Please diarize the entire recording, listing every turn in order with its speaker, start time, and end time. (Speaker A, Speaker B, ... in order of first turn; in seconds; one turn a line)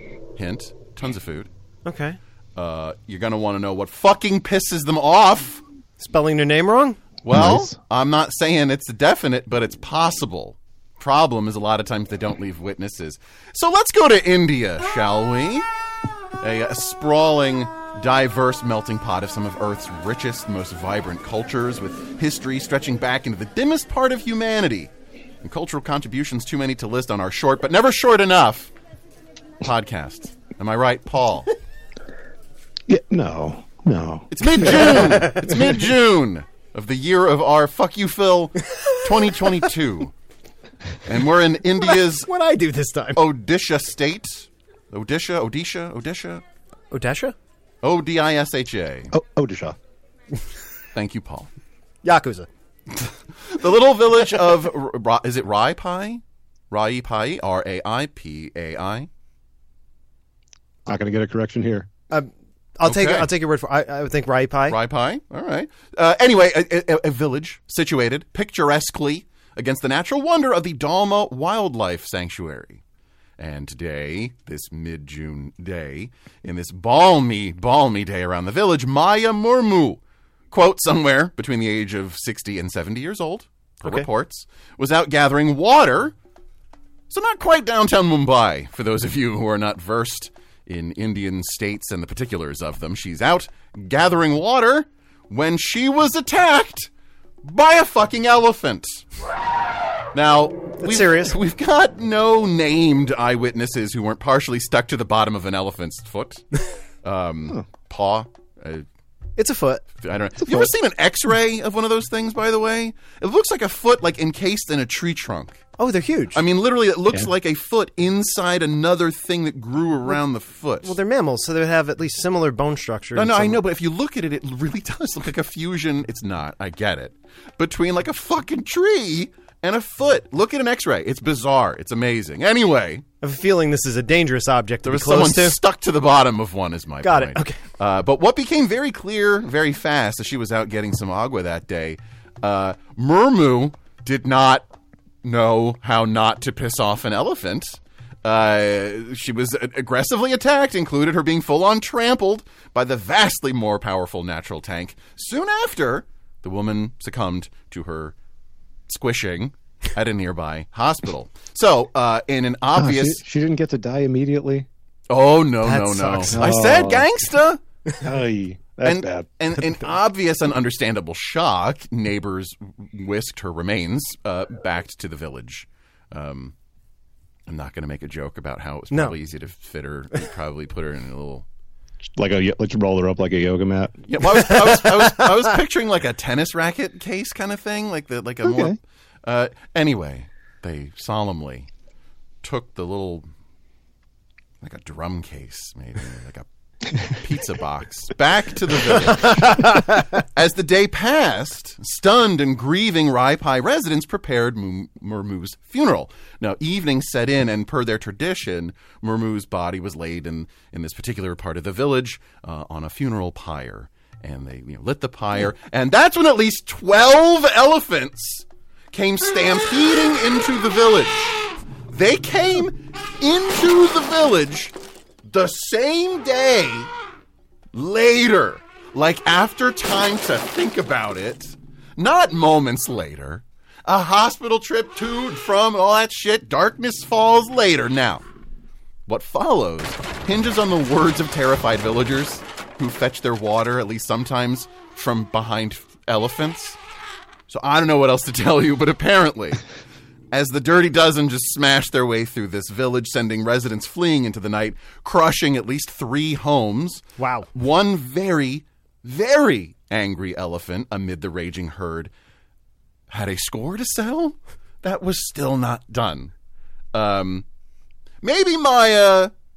Speaker A: 0.3-1.5
Speaker B: 1.8-2.2
Speaker A: 2.5-5.6
Speaker B: 6.0-7.0
Speaker A: 7.2-15.7
Speaker C: 7.3-7.7
Speaker A: 16.4-28.7
Speaker A: 29.6-31.5
Speaker C: 32.9-35.4
Speaker A: 34.3-40.1
Speaker B: 34.9-35.4
Speaker B: 38.7-39.7
Speaker A: 41.0-42.3
Speaker B: 41.8-43.2
Speaker A: 43.1-46.4
Speaker B: 46.9-47.4
Speaker A: 47.8-49.1
Speaker C: 49.1-49.8
Speaker A: 50.9-51.5
Speaker B: 52.0-52.5
Speaker A: 52.9-59.1
Speaker C: 60.9-61.9
Speaker B: 62.1-64.8
Speaker A: 62.8-63.3
Speaker A: 64.7-72.8
Speaker A: 73.4-86.1
Speaker A: 87.1-96.9
Speaker A: 97.4-99.0
Speaker A: 100.1-106.4
Speaker B: 100.8-101.4
Speaker A: 107.0-108.8
Speaker B: 109.4-109.8
Speaker A: 110.0-115.6
Speaker C: 110.4-110.7
Speaker B: 115.8-116.4
Speaker A: 116.3-120.9
Speaker B: 120.8-123.6
Speaker A: 123.1-133.0
Speaker B: 133.2-135.6
Speaker A: 134.8-144.7
Speaker B: 137.0-137.6
Speaker A: 145.2-158.1
Speaker A: 158.9-163.2
Speaker C: 162.7-164.7
Speaker A: 165.1-167.6
Speaker B: 165.6-166.5
Speaker C: 166.3-167.1
Speaker C: 168.0-169.3
Speaker A: 168.8-176.5
Speaker A: 177.5-181.4
Speaker C: 182.2-183.9
Speaker A: 184.1-191.7
Speaker B: 184.3-185.5
Speaker C: 188.4-188.8
Speaker A: 192.4-193.3
Speaker A: 194.6-224.7
Speaker A: 225.3-226.9
Speaker A: 227.7-238.2
Speaker A: 239.1-246.8
Speaker A: 247.5-249.6
Speaker A: 250.3-262.1
Speaker B: 257.2-257.5
Speaker A: 263.1-266.3
Speaker A: 266.9-267.4
Speaker A: 268.2-269.3